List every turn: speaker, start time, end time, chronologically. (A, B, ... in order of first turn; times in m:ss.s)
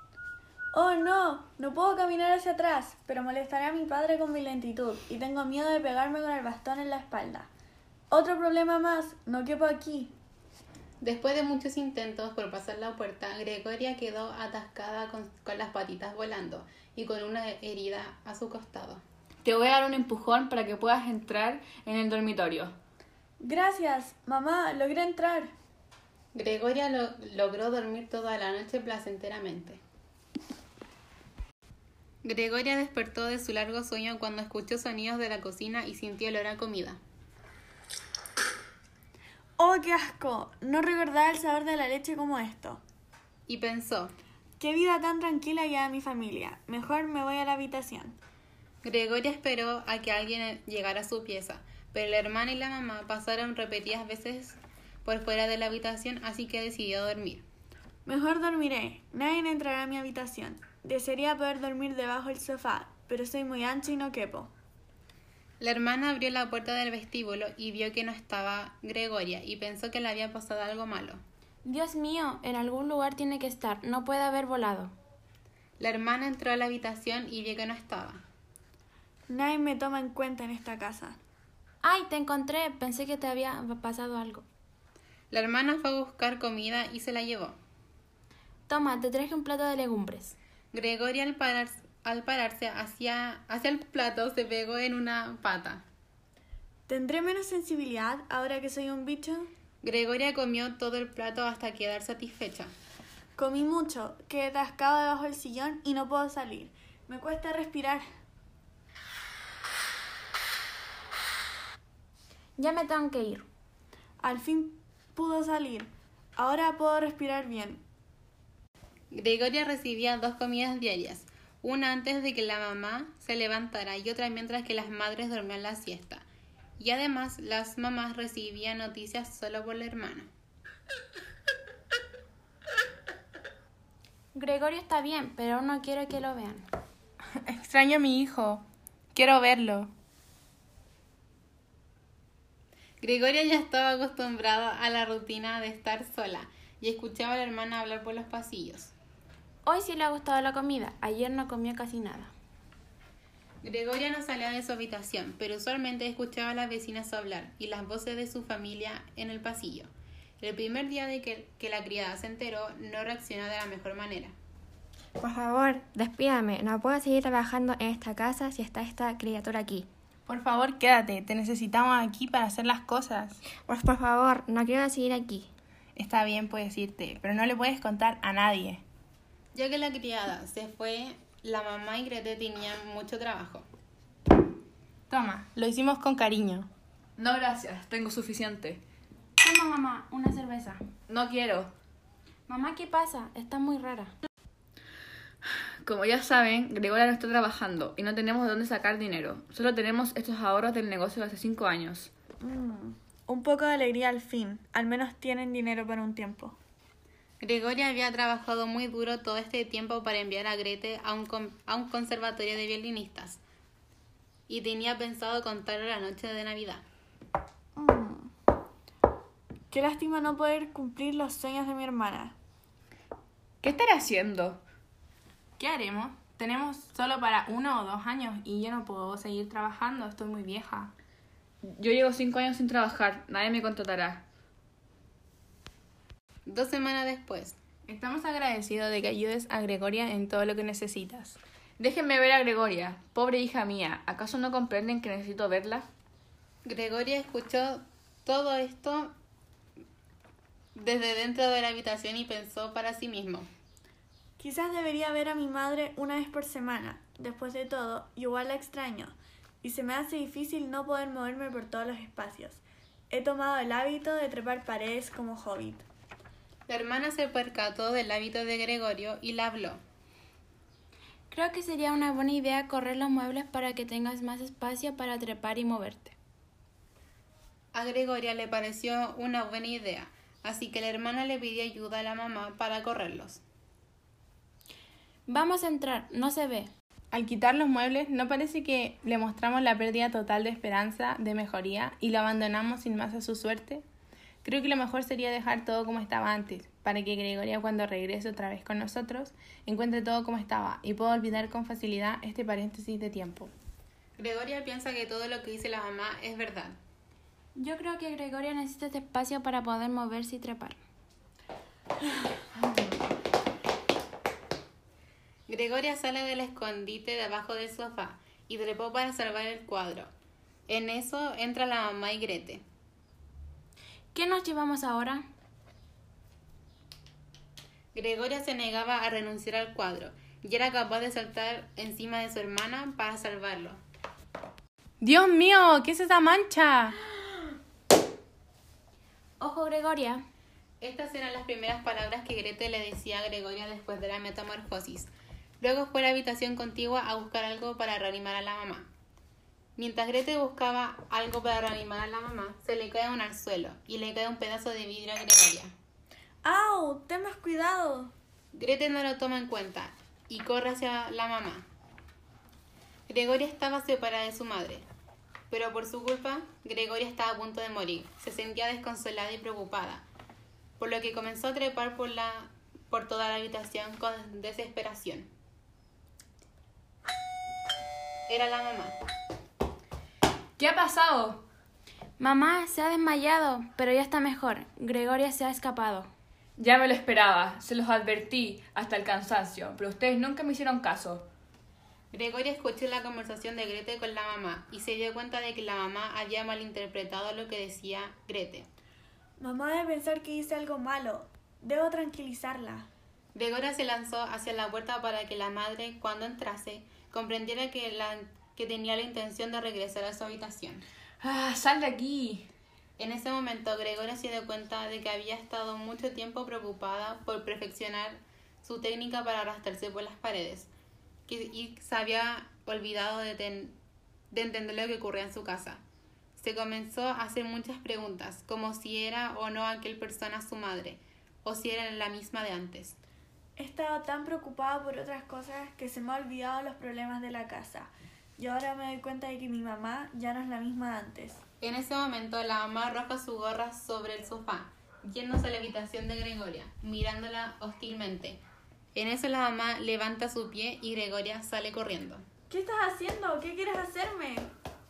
0:00.7-0:07.5 A
0:08.1-0:10.1 A
0:11.0-0:19.0 B
0:19.4-0:22.7 C
0:23.4-0:25.5 A
0:26.3-0:29.8 B
0:32.2-0:37.0 B
0:39.6-0:42.8 A
0:43.5-0:44.1 B
0:44.6-0:48.2 A
0:48.8-0:57.4 B
0:58.0-1:04.5 A
1:05.6-1:11.2 B
1:11.6-1:14.9 D
1:15.8-1:18.2 B
1:19.3-1:21.2 A
1:21.8-1:24.4 D
1:25.3-1:27.6 B
1:28.7-1:30.4 D
1:30.7-1:35.8 B
1:36.9-1:39.5 A
1:39.8-1:42.7 B
1:43.4-1:48.0 A
1:52.6-1:53.4 D
1:54.2-1:57.8 A
1:59.1-2:06.2 B
2:06.8-2:10.3 B
2:14.3-2:16.6 D
2:17.4-2:18.6 E
2:19.1-2:19.9 E
2:23.0-2:28.9 B
2:29.6-2:32.3 D
2:33.6-2:39.9 B
2:40.4-2:44.3 B
2:45.2-2:49.8 F
2:50.3-2:53.4 E
2:53.7-2:55.5 F
2:56.0-2:58.8 E
2:59.5-3:03.6 B
3:05.1-3:06.7 E
3:07.2-3:08.8 C
3:09.4-3:10.8 D
3:11.1-3:11.7 C
3:12.5-3:14.1 D
3:15.8-3:22.1 C
3:22.4-3:26.6 A
3:27.4-3:33.4 B
3:34.5-3:36.8 B
3:37.8-3:38.3 A
3:39.7-3:42.3 A
3:43.6-3:44.6 C
3:45.6-3:50.9 E
3:51.6-3:54.2 C
3:56.5-3:57.6 B
3:57.8-4:01.4 E
4:01.8-4:05.9 C
4:06.6-4:09.1 B
4:10.8-4:13.5 B
4:14.4-4:25.8 A
4:26.7-4:29.8 B
4:31.3-4:36.1 D
4:37.7-4:43.4 B
4:45.3-4:46.7 D
4:47.1-4:53.8 E
4:54.4-5:03.5 E
5:04.2-5:06.8 B
5:07.6-5:10.8 D
5:15.5-5:20.1 B
5:20.7-5:22.6 B
5:24.1-5:25.2 D
5:27.9-5:33.8 B
5:35.0-5:37.0 E
5:39.4-5:40.2 D
5:40.8-5:45.1 B
5:45.6-5:48.9 B
5:49.8-5:55.7 B
5:56.4-5:58.1 A
5:58.5-6:01.6 B
6:03.1-6:04.8 B
6:05.5-6:10.0 B
6:10.8-6:15.3 B
6:18.3-6:19.0 B
6:20.6-6:21.4 C
6:22.2-6:26.1 D
6:26.6-6:31.2 C
6:32.1-6:38.7 B
6:39.4-6:42.9 A
6:43.3-6:50.8 B
6:51.2-6:52.5 C
6:53.0-7:00.7 B
7:01.3-7:03.7 B
7:04.3-7:05.8 B
7:06.4-7:13.0 B
7:13.6-7:21.4 A
7:21.6-7:28.4 B
7:28.9-7:32.2 B
7:32.5-7:34.5 A